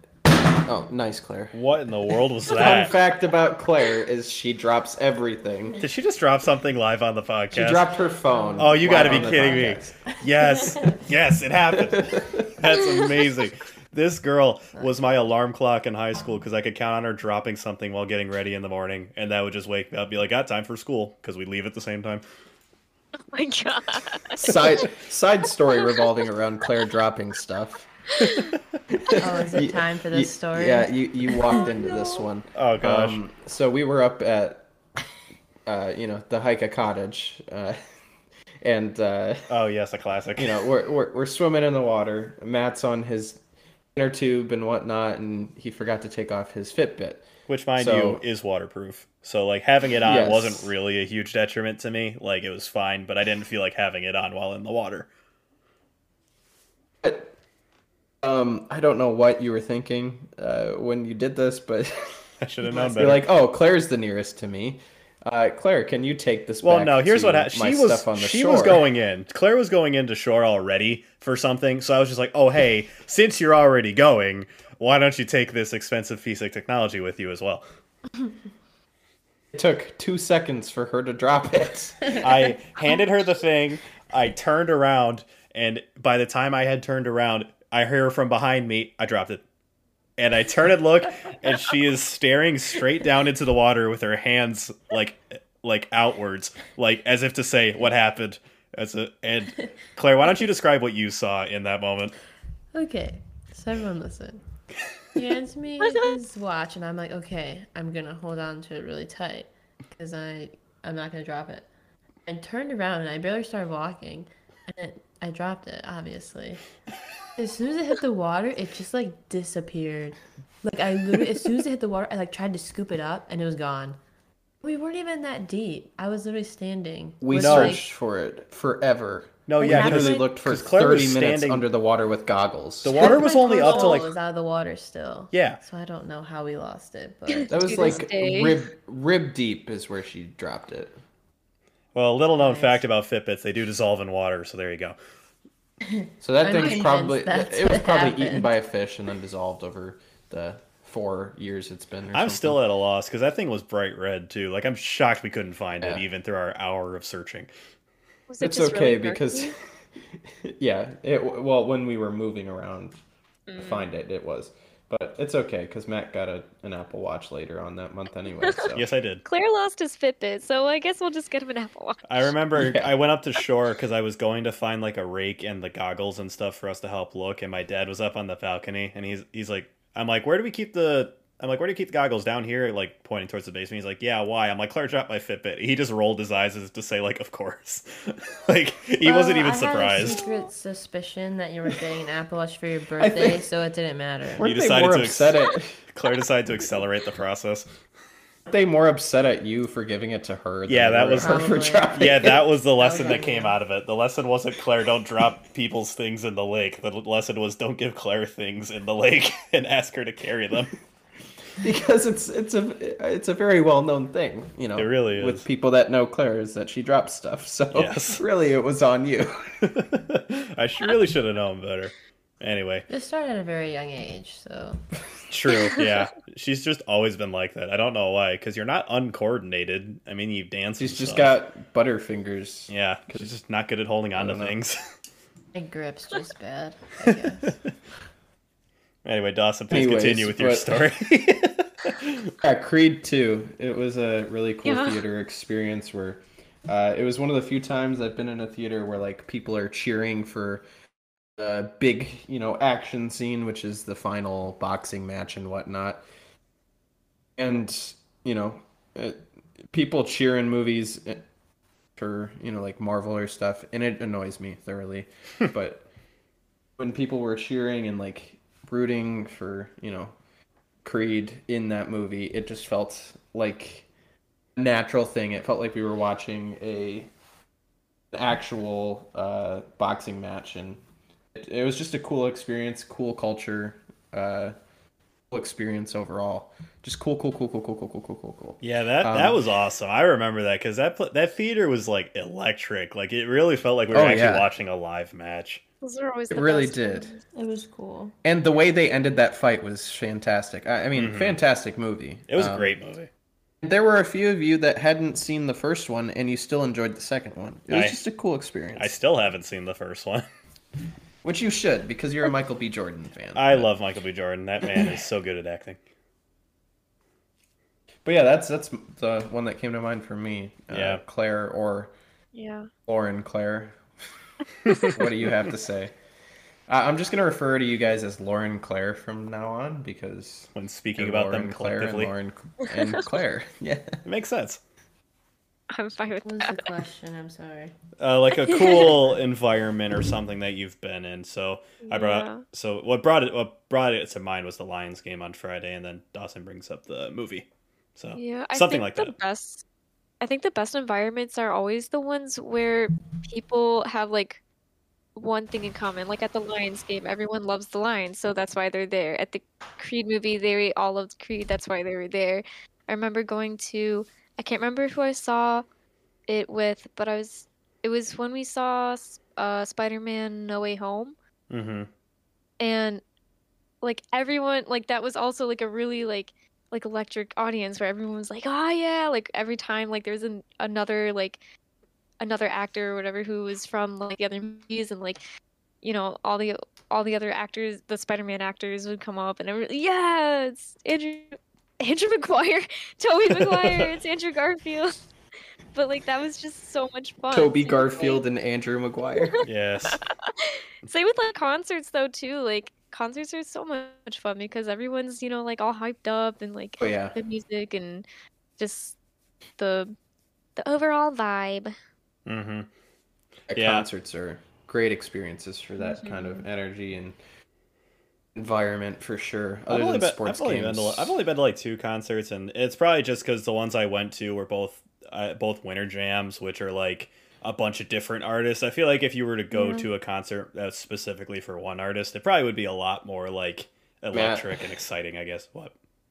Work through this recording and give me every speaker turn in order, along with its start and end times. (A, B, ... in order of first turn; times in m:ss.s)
0:00.5-0:01.6 A
0:01.5-0:03.0 B
0:02.4-0:05.8 A
0:05.8-0:07.9 B
0:07.5-0:09.9 A
0:08.4-0:11.1 C
0:08.6-0:22.2 B
0:11.7-0:12.6 A
0:23.3-0:24.8 D
0:24.4-0:27.9 A
0:25.7-0:26.0 D
0:28.9-0:34.7 A
0:29.2-0:32.2 C
0:32.5-0:33.2 B
0:35.6-0:37.8 A
0:38.6-0:39.5 A
0:39.5-0:40.7 B
0:40.4-0:43.4 A
0:43.9-0:48.2 A
0:47.5-0:55.1 B
0:50.0-0:50.7 A
0:57.0-0:57.3 A
0:58.2-1:08.8 A
1:02.4-1:03.3 B
1:06.6-1:17.6 B
1:19.5-1:22.3 A
1:22.2-1:29.4 B
1:30.2-1:42.1 B
1:42.7-1:44.4 C
1:45.1-1:51.7 C
1:52.2-1:56.6 C
1:57.4-2:04.0 C
2:04.6-2:07.8 C
2:07.2-2:13.0 A
2:07.3-2:07.8 B
2:09.5-2:11.7 B
2:09.6-2:10.3 C
2:12.8-2:14.1 B
2:12.9-2:18.0 C
2:13.0-2:14.1 D
2:15.3-2:15.6 B
2:17.3-2:18.6 D
2:17.5-2:21.0 A
2:21.9-2:25.0 B
2:22.4-2:22.8 C
2:25.8-2:28.6 C
2:26.2-2:32.6 A
2:32.1-2:37.5 B
2:38.3-2:39.5 D
2:38.4-2:39.6 A
2:40.4-2:43.0 A
2:43.5-2:43.8 D
2:43.5-2:48.9 A
2:48.7-2:49.2 B
2:49.2-2:52.3 D
2:52.0-3:10.2 B
2:52.5-2:52.9 A
3:09.0-3:14.4 C
3:13.0-3:13.4 A
3:14.4-3:17.7 B
3:14.4-3:15.9 A
3:18.5-3:22.4 A
3:20.7-3:30.7 B
3:21.2-3:22.0 C
3:22.8-3:23.5 C
3:31.6-3:39.7 A
3:34.8-3:35.4 B
3:37.7-3:38.2 B
3:39.6-3:42.9 B
3:42.9-3:44.8 C
3:45.3-3:51.4 B
3:50.8-3:53.3 A
3:52.7-3:54.8 B
3:54.2-3:54.5 A
3:55.5-3:57.6 C
3:57.0-3:57.7 B
3:59.0-4:02.3 B
3:59.7-4:00.9 A
4:02.4-4:10.6 A
4:04.6-4:05.0 D
4:11.4-4:16.0 A
4:17.4-4:19.2 A
4:19.7-4:21.2 A
4:22.0-4:25.8 A
4:26.8-4:30.1 A
4:30.8-4:33.9 A
4:34.6-4:37.1 A
4:38.1-4:40.8 A
4:41.3-4:44.5 A
4:45.3-4:49.4 A
4:48.6-4:55.6 B
4:53.9-4:54.5 A
4:55.8-4:57.2 D
4:56.3-4:57.1 A
4:57.3-4:58.1 C
4:58.2-5:02.7 A
5:00.9-5:01.4 B
5:02.3-5:03.1 B
5:03.6-5:08.9 A
5:07.7-5:08.0 B
5:08.8-5:10.2 B
5:11.2-5:13.7 A
5:13.3-5:15.8 B
5:18.0-5:21.9 A
5:20.7-5:21.0 B
5:22.3-5:22.7 D
5:22.8-5:23.8 A
5:24.7-5:25.0 B
5:24.7-5:25.9 A
5:26.7-5:34.0 A
5:30.5-5:32.1 B
5:34.0-5:34.6 B
5:35.7-5:36.7 D
5:36.2-5:37.7 C
5:38.0-5:49.1 B
5:38.4-5:38.9 D
5:41.8-5:42.4 D
5:48.2-5:49.6 D
5:50.2-5:54.4 D
5:55.2-6:05.6 D
6:06.3-6:11.1 D
6:11.5-6:11.9 B
6:12.6-6:13.0 D
6:13.8-6:21.4 D
6:22.2-6:25.2 D
6:25.8-6:35.0 D
6:35.7-6:38.2 D
6:37.3-6:39.4 A
6:39.2-6:48.0 D
6:39.4-6:40.0 B
6:46.8-6:47.2 A
6:48.6-6:49.0 D
6:49.6-6:49.9 D
6:50.6-6:51.7 D
6:52.2-6:52.7 B
6:53.5-6:57.2 A
6:53.5-6:53.8 B
6:55.8-6:56.4 D
6:58.4-7:01.2 A
6:59.7-7:15.7 B
7:09.5-7:09.9 D
7:14.1-7:14.6 A